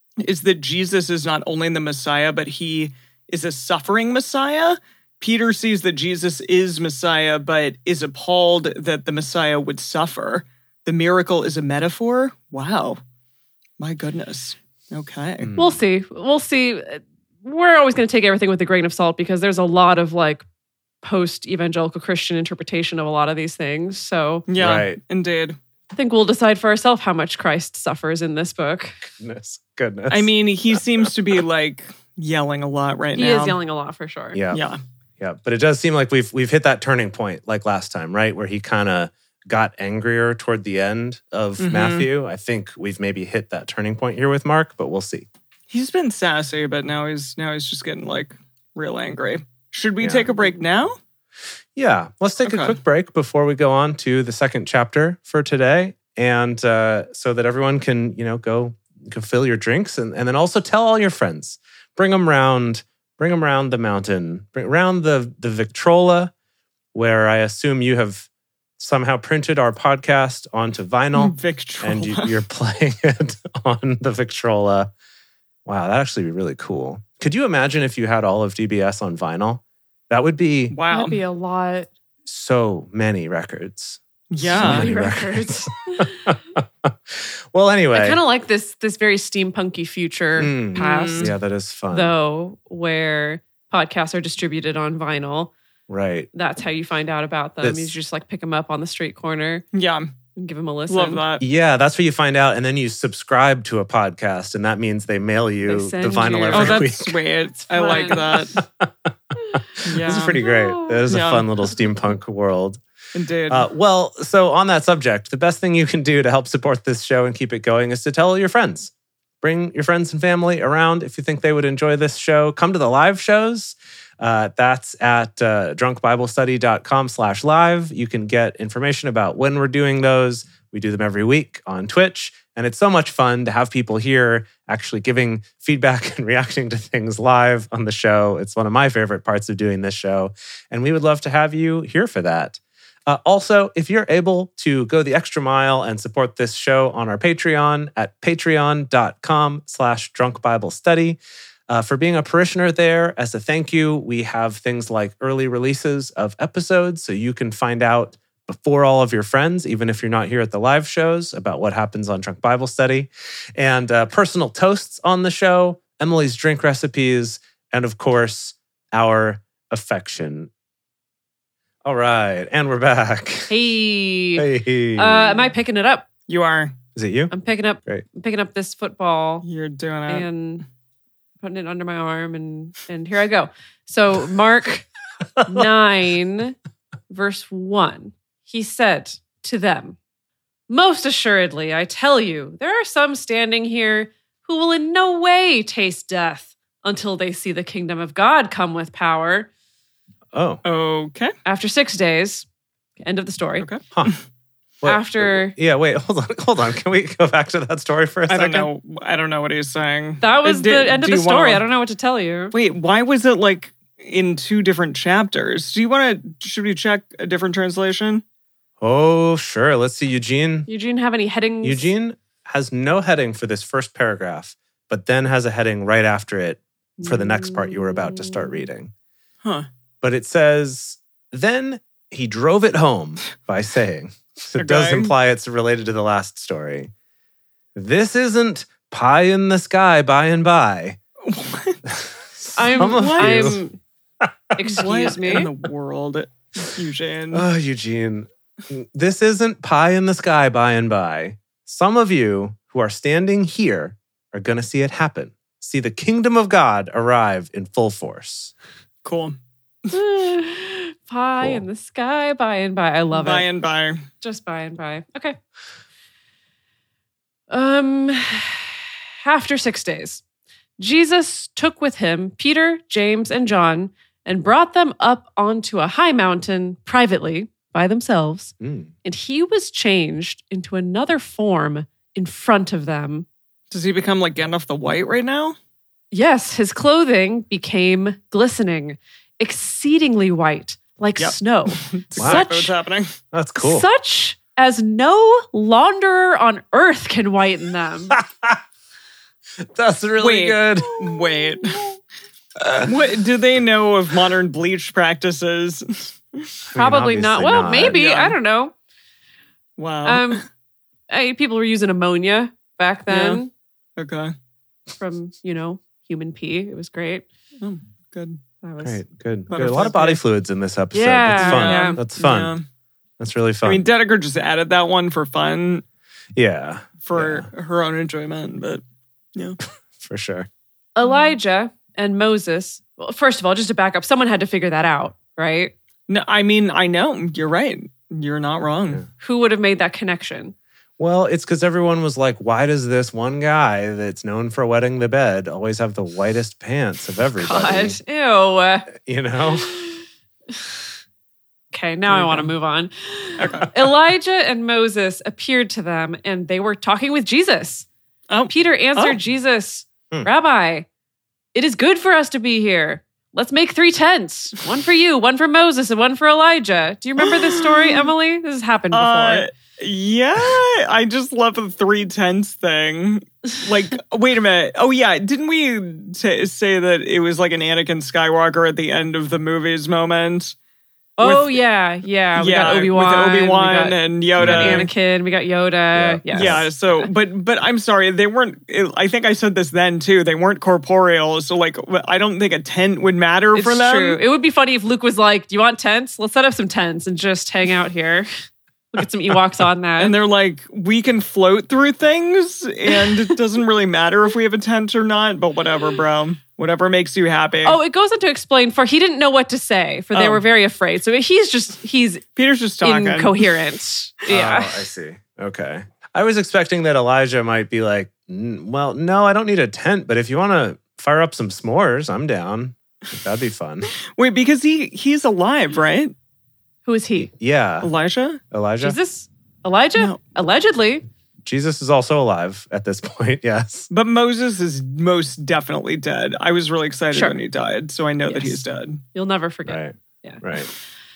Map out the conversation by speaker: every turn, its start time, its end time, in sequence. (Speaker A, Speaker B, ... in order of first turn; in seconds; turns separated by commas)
Speaker A: 0.2-13.0, Speaker A: 13.8-15.5, Speaker B: 15.4-15.8, Speaker C: 15.6-20.4, Speaker C: 21.0-24.5, Speaker A: 24.5-25.6, Speaker B: 24.6-25.0, Speaker C: 25.9-29.0, Speaker B: 29.2-31.1, Speaker A: 30.1-33.6, Speaker C: 33.1-34.4, Speaker B: 34.3-34.6, Speaker A: 34.5-34.8, Speaker B: 35.2-45.3, Speaker A: 41.6-42.1, Speaker A: 45.7-50.9, Speaker B: 50.0-50.3, Speaker B: 51.8-66.3, Speaker A: 52.5-52.8, Speaker B: 66.9-68.3, Speaker B: 68.8-74.9, Speaker A: 71.2-72.3, Speaker B: 75.7-80.8, Speaker A: 80.7-81.2, Speaker C: 80.9-81.9, Speaker B: 82.2-88.2, Speaker A: 84.3-84.9, Speaker C: 84.6-86.1, Speaker C: 87.9-91.3, Speaker B: 90.4-92.2, Speaker A: 90.8-91.3, Speaker C: 91.9-95.5, Speaker B: 95.9-96.3, Speaker C: 96.3-99.7, Speaker B: 97.6-97.9, Speaker A: 99.7-100.1, Speaker C: 100.3-101.2, Speaker A: 100.9-101.4, Speaker B: 101.4-107.2, Speaker C: 105.7-106.9, Speaker A: 106.5-108.6, Speaker C: 107.6-108.4, Speaker B: 108.3-112.8, Speaker A: 109.8-110.4, Speaker C: 110.3-111.0, Speaker A: 111.1-111.5, Speaker A: 113.1-113.7, Speaker B: 113.5-170.5, Speaker B: 171.8-173.6, Speaker C: 173.5-176.1, Speaker B: 174.3-175.5, Speaker A: 176.3-176.8, Speaker B: 176.9-177.3, Speaker C: 177.3-179.5, Speaker A: 179.4-180.3, Speaker C: 180.1-180.7, Speaker C: 181.4-184.9, Speaker B: 185.4-185.7, Speaker C: 185.5-186.6, Speaker C: 187.1-190.0, Speaker C: 190.7-199.5, Speaker B: 200.3-200.6, Speaker A: 200.7-201.3, Speaker C: 201.4-202.4, Speaker C: 203.0-203.7, Speaker B: 204.8-208.7, Speaker C: 204.8-205.6, Speaker A: 208.3-211.6, Speaker C: 210.2-212.5, Speaker A: 212.5-218.2, Speaker B: 218.8-220.7, Speaker C: 220.7-221.9, Speaker B: 221.6-228.9, Speaker C: 227.0-228.6, Speaker B: 230.0-236.9, Speaker A: 234.6-235.1, Speaker B: 237.8-241.0, Speaker A: 241.2-241.8, Speaker B: 241.9-243.6, Speaker C: 242.6-243.8, Speaker A: 242.9-243.5, Speaker B: 244.2-245.4, Speaker C: 244.6-245.5, Speaker A: 244.8-247.4, Speaker B: 247.3-258.5, Speaker A: 259.1-259.4, Speaker C: 259.9-263.5, Speaker B: 261.4-261.6, Speaker A: 263.1-264.0, Speaker C: 264.2-265.4, Speaker C: 267.5-270.2, Speaker C: 270.8-283.3, Speaker B: 278.6-278.9, Speaker A: 283.7-285.6, Speaker C: 286.1-292.7, Speaker A: 291.2-293.1, Speaker B: 292.2-292.5, Speaker B: 293.3-293.9, Speaker C: 293.6-298.2, Speaker B: 298.1-298.6, Speaker B: 299.6-301.1, Speaker A: 300.2-301.8, Speaker B: 302.6-302.9, Speaker A: 302.8-306.5, Speaker B: 306.7-308.0, Speaker C: 306.8-308.7, Speaker A: 307.9-308.4, Speaker A: 309.8-310.4, Speaker C: 310.1-310.4, Speaker C: 311.1-313.5, Speaker A: 313.1-313.4, Speaker A: 314.0-314.3, Speaker C: 315.0-317.2, Speaker A: 317.6-318.4, Speaker C: 318.6-319.0, Speaker B: 318.8-322.5, Speaker A: 319.5-320.2, Speaker C: 320.9-322.0, Speaker A: 321.4-322.6, Speaker B: 323.2-323.9, Speaker A: 323.6-325.8, Speaker B: 326.4-327.5, Speaker A: 327.0-328.8, Speaker B: 330.0-330.5, Speaker C: 331.0-335.7, Speaker A: 336.1-339.0, Speaker C: 339.2-340.6, Speaker B: 341.0-348.0, Speaker C: 347.4-348.9, Speaker B: 349.0-349.8, Speaker C: 351.7-357.9, Speaker A: 352.1-352.5, Speaker A: 353.4-353.9, Speaker A: 358.3-359.2, Speaker C: 358.5-360.9, Speaker C: 361.6-369.5, Speaker A: 367.2-368.1, Speaker A: 368.9-380.6, Speaker C: 381.2-387.1, Speaker A: 381.2-381.6, Speaker A: 382.4-384.9, Speaker B: 384.4-384.9, Speaker B: 385.9-386.7, Speaker A: 386.3-394.2, Speaker C: 393.6-398.3, Speaker C: 398.9-400.1, Speaker A: 400.0-407.8, Speaker C: 407.6-412.2, Speaker A: 410.1-410.4, Speaker A: 412.4-413.5, Speaker C: 412.8-414.8, Speaker B: 414.3-423.9, Speaker A: 424.1-426.1, Speaker C: 426.9-427.3, Speaker B: 427.2-427.9, Speaker A: 427.8-428.4, Speaker B: 428.5-429.0, Speaker C: 428.8-431.1, Speaker B: 431.4-433.9, Speaker A: 433.9-439.0, Speaker C: 437.1-437.4, Speaker C: 438.3-438.6, Speaker C: 439.1-440.4, Speaker B: 439.7-440.7